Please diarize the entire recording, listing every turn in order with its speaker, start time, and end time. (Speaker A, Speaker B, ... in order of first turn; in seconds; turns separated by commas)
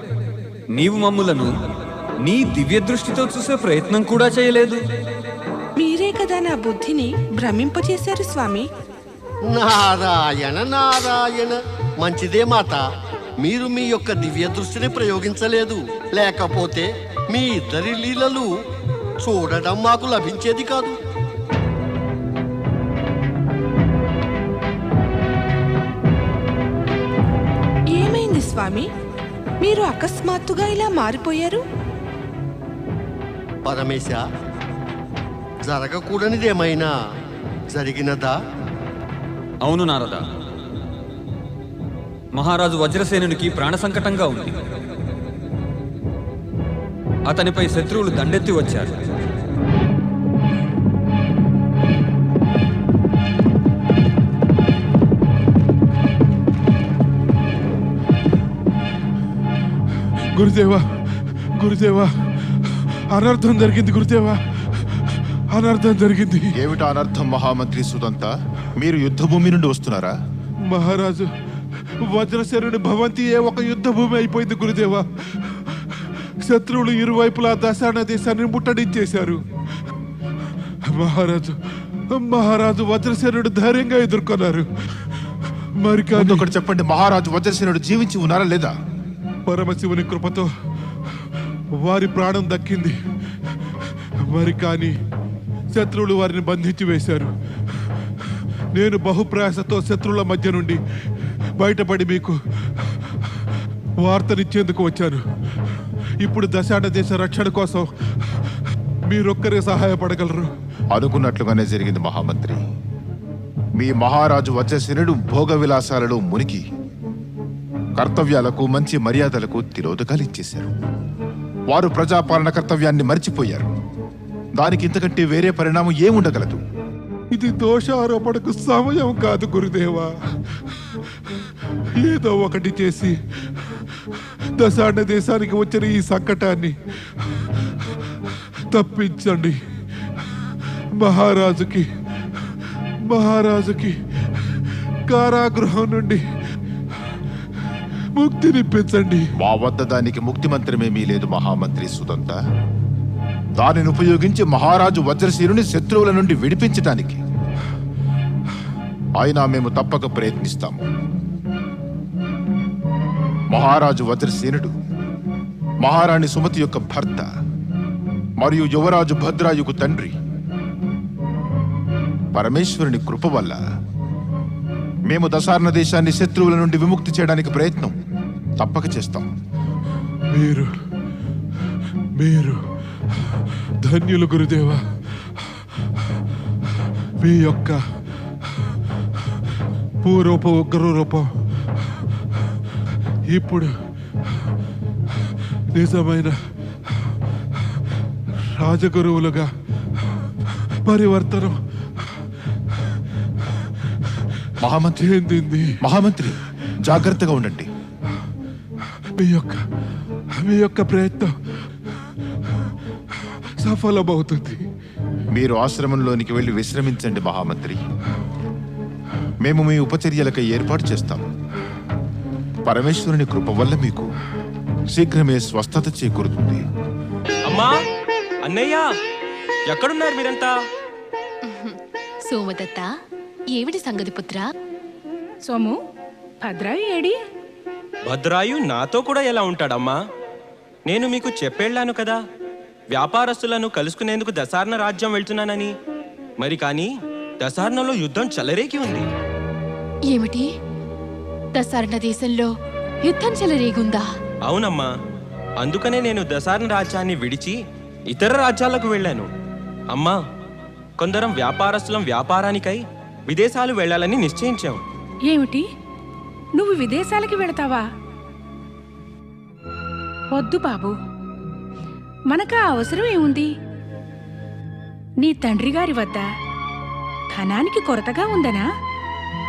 Speaker A: 0.8-1.5, Speaker A: 2.3-4.8, Speaker B: 5.8-8.7, Speaker C: 9.5-12.8, Speaker C: 13.4-18.5, Speaker C: 19.2-20.9, Speaker B: 27.9-28.9, Speaker B: 29.6-31.6, Speaker C: 33.6-34.2, Speaker C: 35.6-36.9, Speaker C: 37.7-38.4, Speaker A: 39.6-40.2, Speaker A: 42.4-44.6, Speaker A: 47.3-49.2, Speaker D: 60.4-66.5, Speaker E: 66.5-70.2, Speaker D: 70.7-71.3, Speaker D: 71.8-79.9, Speaker D: 80.8-86.5, Speaker E: 86.1-88.7, Speaker D: 89.5-90.5, Speaker D: 91.8-95.0, Speaker D: 95.7-110.5, Speaker E: 110.9-112.6, Speaker E: 113.8-116.7, Speaker E: 118.0-120.7, Speaker E: 121.7-123.7, Speaker E: 124.6-126.6, Speaker D: 127.3-139.6, Speaker D: 140.2-146.2, Speaker D: 148.2-149.3, Speaker E: 149.4-152.4, Speaker E: 153.6-157.2, Speaker E: 159.2-160.8, Speaker E: 163.5-164.7, Speaker E: 165.8-167.3, Speaker E: 168.4-170.2, Speaker E: 172.3-173.6, Speaker E: 175.1-177.9, Speaker E: 178.6-179.3, Speaker D: 180.3-180.7, Speaker D: 182.2-186.2, Speaker D: 187.2-187.8, Speaker D: 188.4-189.4, Speaker D: 190.0-191.9, Speaker D: 193.3-193.7, Speaker D: 195.7-197.8, Speaker D: 198.3-199.5, Speaker D: 200.0-204.5, Speaker E: 204.6-205.1, Speaker D: 205.0-205.8, Speaker E: 205.8-207.7, Speaker D: 208.9-209.7, Speaker D: 210.3-214.7, Speaker E: 215.3-217.8, Speaker E: 219.4-221.3, Speaker E: 222.7-224.1, Speaker E: 224.9-226.6, Speaker F: 227.5-227.7, Speaker F: 228.4-228.8, Speaker F: 229.7-230.5, Speaker G: 231.4-232.9, Speaker G: 233.5-234.5, Speaker H: 235.5-235.8, Speaker H: 236.4-237.2, Speaker F: 238.1-240.0, Speaker F: 240.9-242.2, Speaker F: 242.9-245.7, Speaker F: 246.4-246.9, Speaker F: 247.4-249.1, Speaker G: 250.1-250.5, Speaker G: 251.5-252.5, Speaker G: 253.0-254.1, Speaker F: 254.5-254.9, Speaker F: 255.6-257.6, Speaker F: 258.1-259.3, Speaker F: 261.0-264.8, Speaker H: 265.3-265.7, Speaker H: 266.6-267.8, Speaker H: 270.3-270.9, Speaker H: 272.3-273.5, Speaker H: 275.2-276.2, Speaker H: 277.3-278.6